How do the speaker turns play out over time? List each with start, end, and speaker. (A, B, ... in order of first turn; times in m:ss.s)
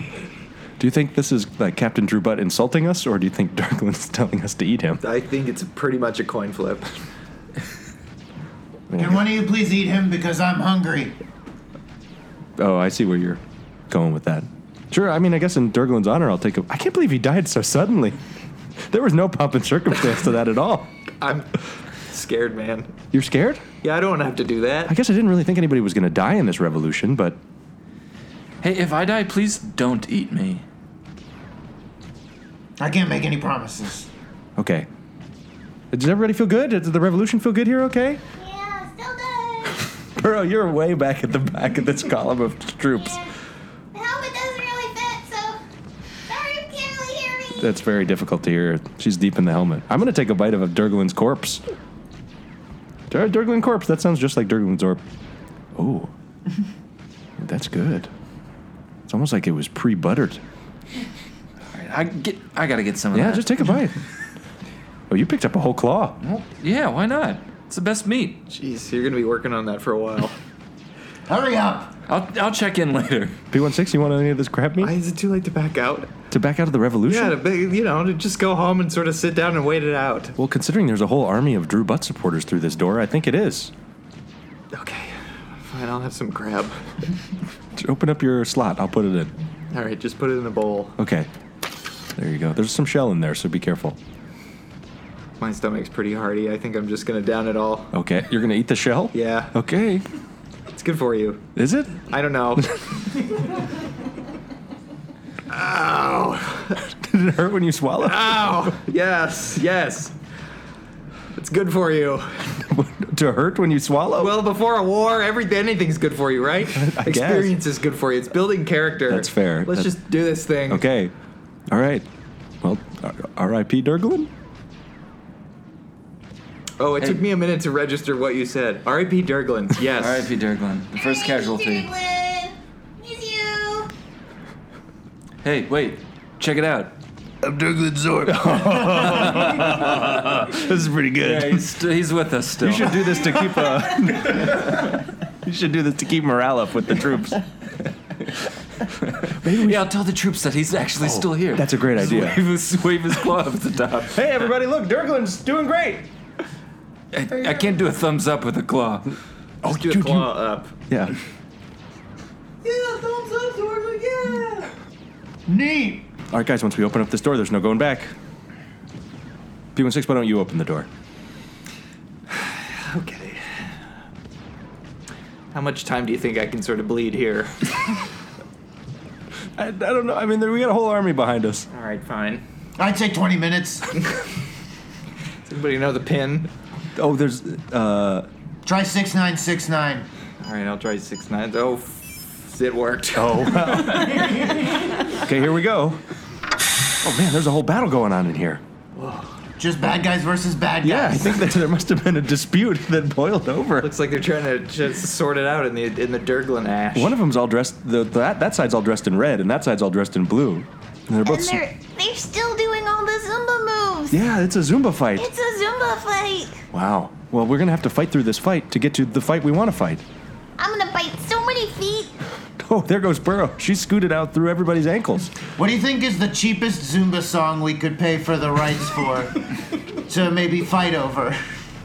0:00.8-0:05.0 A
0:05.0-0:06.8 B
0:08.9-0:09.2 A
0:08.9-0:11.2 C
0:12.6-0:18.2 A
0:18.8-0:20.9 A
0:21.2-0:21.5 B
0:22.1-0:22.9 B
0:23.1-0:23.6 A
0:23.8-0:25.0 B
0:24.8-0:27.4 A
0:28.6-0:30.6 D
0:32.8-0:34.1 C
0:34.6-0:34.9 A
0:35.9-0:38.2 A
0:38.4-0:39.8 E
0:40.2-0:43.2 A
0:42.9-0:43.2 E
0:43.9-0:45.6 E
0:46.3-0:47.6 E
0:47.6-0:51.6 A
0:53.1-0:55.0 A
0:55.7-0:56.1 A
0:57.4-0:58.1 A
0:59.1-1:00.4 A
1:01.7-1:03.5 D
1:03.1-1:03.9 A
1:05.1-1:06.2 A
1:06.2-1:08.4 D
1:08.5-1:10.3 B
1:11.3-1:11.9 C
1:12.1-1:13.4 D
1:13.5-1:14.9 A
1:14.8-1:16.1 B
1:16.3-1:17.4 A
1:17.0-1:20.3 B
1:20.4-1:23.7 A
1:24.7-1:26.8 B
1:27.8-1:29.3 A
1:29.7-1:30.9 B
1:31.0-1:31.3 A
1:32.2-1:34.0 A
1:35.4-1:37.9 B
1:37.9-1:40.0 A
1:39.1-1:39.5 B
1:40.7-1:41.4 B
1:41.6-1:42.6 A
1:42.0-1:42.7 B
1:45.5-1:46.7 B
1:46.8-1:48.8 A
1:48.0-1:50.1 B
1:51.3-1:52.5 B
1:52.6-1:54.5 A
1:54.1-2:00.8 B
1:56.7-1:57.6 A
1:59.1-2:00.0 A
2:00.6-2:01.1 A
2:01.7-2:02.0 A
2:02.6-2:04.3 A
2:06.8-2:10.3 B
2:09.9-2:11.9 D
2:10.9-2:13.9 E
2:15.4-2:16.9 D
2:17.4-2:21.6 A
2:18.9-2:20.1 D
2:21.2-2:23.2 D
2:22.6-2:24.9 A
2:25.4-2:27.4 A
2:29.1-2:34.1 D
2:29.3-2:29.9 A
2:31.0-2:32.4 A
2:34.1-2:36.1 A
2:37.1-2:39.2 D
2:39.6-2:41.2 A
2:39.6-2:40.7 B
2:42.6-2:44.6 B
2:45.5-2:46.1 C
2:46.3-2:48.1 A
2:49.7-2:50.9 A
2:52.3-2:53.7 B
2:55.5-2:57.6 B
2:59.6-3:01.6 A
3:01.7-3:02.4 B
3:02.8-3:03.9 C
3:05.4-3:06.5 B
3:07.0-3:08.3 A
3:08.6-3:10.0 C
3:10.4-3:14.3 B
3:13.1-3:16.0 A
3:17.0-3:18.6 A
3:18.9-3:19.3 B
3:19.6-3:21.5 C
3:20.8-3:23.9 A
3:23.8-3:27.2 B
3:26.9-3:31.6 A
3:31.2-3:34.2 E
3:34.1-3:35.3 A
3:35.2-3:36.6 E
3:36.7-3:40.0 A
3:40.6-3:42.1 E
3:42.6-3:45.3 A
3:45.6-3:49.4 C
3:50.0-3:51.4 C